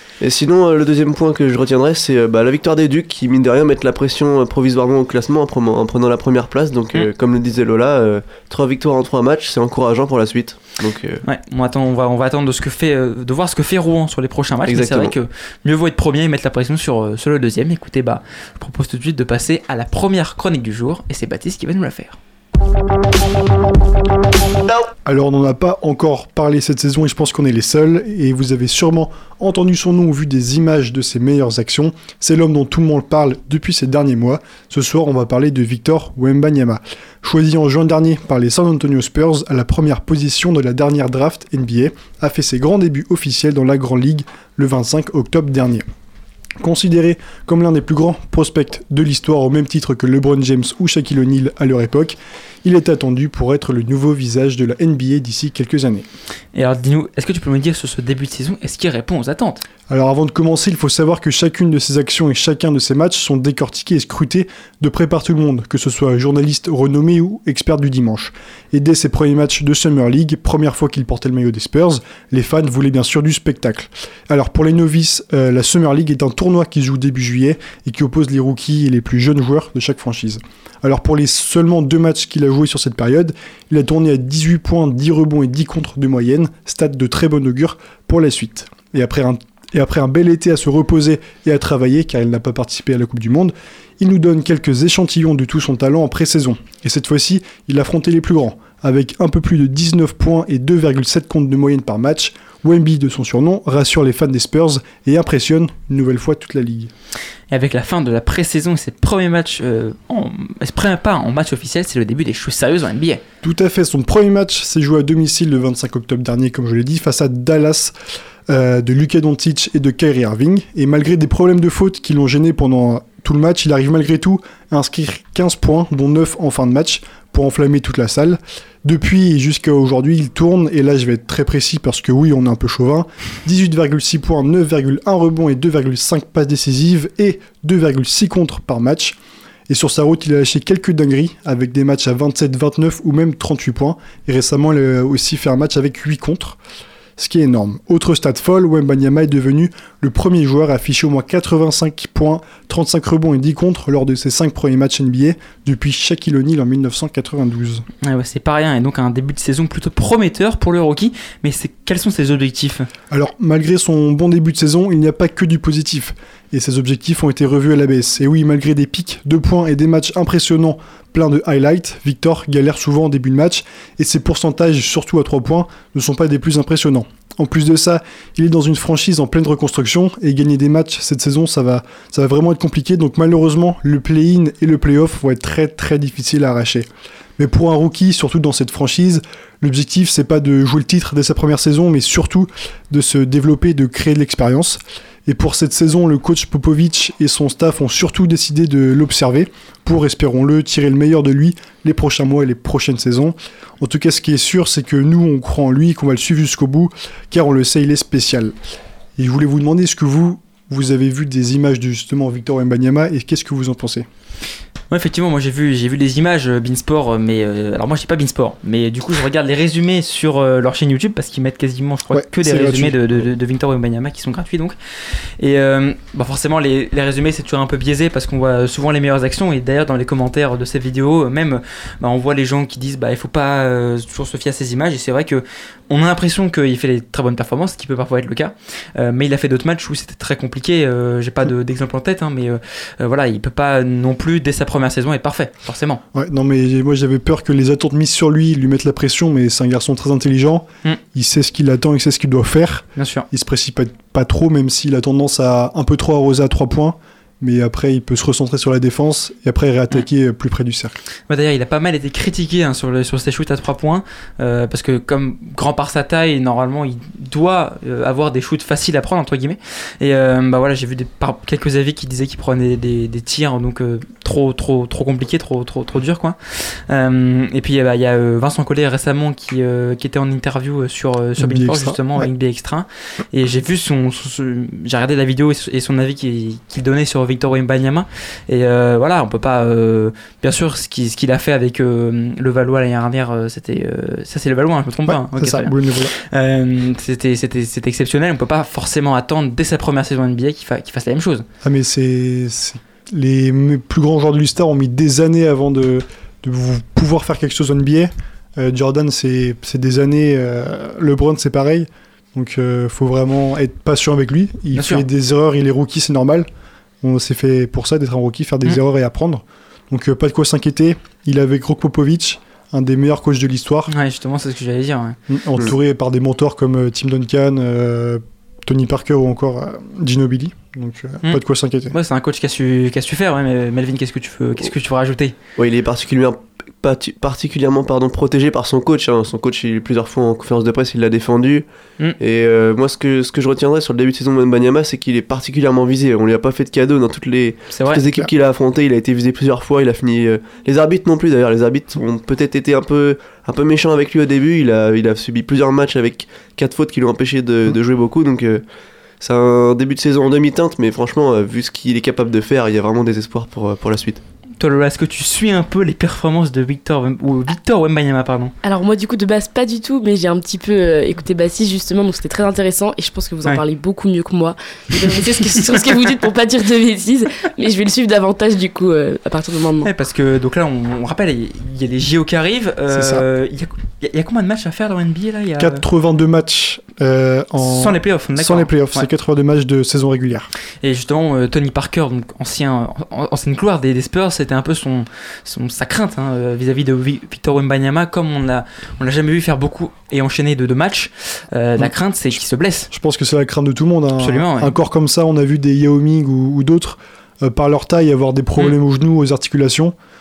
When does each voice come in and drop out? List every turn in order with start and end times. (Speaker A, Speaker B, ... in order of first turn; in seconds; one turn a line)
Speaker A: 0.2-11.2
Speaker B: 11.2-22.2
Speaker A: 14.7-15.2
Speaker C: 25.1-45.9
Speaker C: 46.6-56.1
Speaker B: 56.5-59.6
Speaker C: 59.9-106.9
Speaker B: 107.5-113.2
Speaker C: 113.4-117.9
Speaker C: 118.5-139.2
Speaker C: 139.7-146.6
Speaker C: 147.2-157.8
Speaker B: 158.0-162.9
Speaker C: 163.1-208.6
Speaker C: 209.2-214.1
Speaker B: 214.9-224.8
Speaker C: 222.1-223.3
Speaker B: 225.4-246.0
Speaker C: 246.1-261.0
Speaker B: 253.0-253.3
Speaker B: 261.3-301.5
Speaker C: 281.4-282.3
Speaker C: 295.1-296.1
Speaker C: 301.6-316.5
Speaker B: 314.7-315.1
Speaker C: 317.0-323.9
Speaker B: 323.9-325.2
Speaker C: 325.3-331.9
Speaker B: 331.2-335.4
Speaker A: 335.6-341.6
Speaker A: 342.2-358.6
Speaker B: 347.7-348.0
Speaker A: 359.2-364.2
Speaker B: 364.6-368.5
Speaker D: 368.6-379.9
Speaker B: 379.8-385.8
Speaker C: 382.9-383.2
Speaker C: 385.6-390.5
Speaker B: 387.6-389.1
Speaker B: 390.8-402.9
Speaker C: 402.9-409.9
Speaker B: 404.2-404.8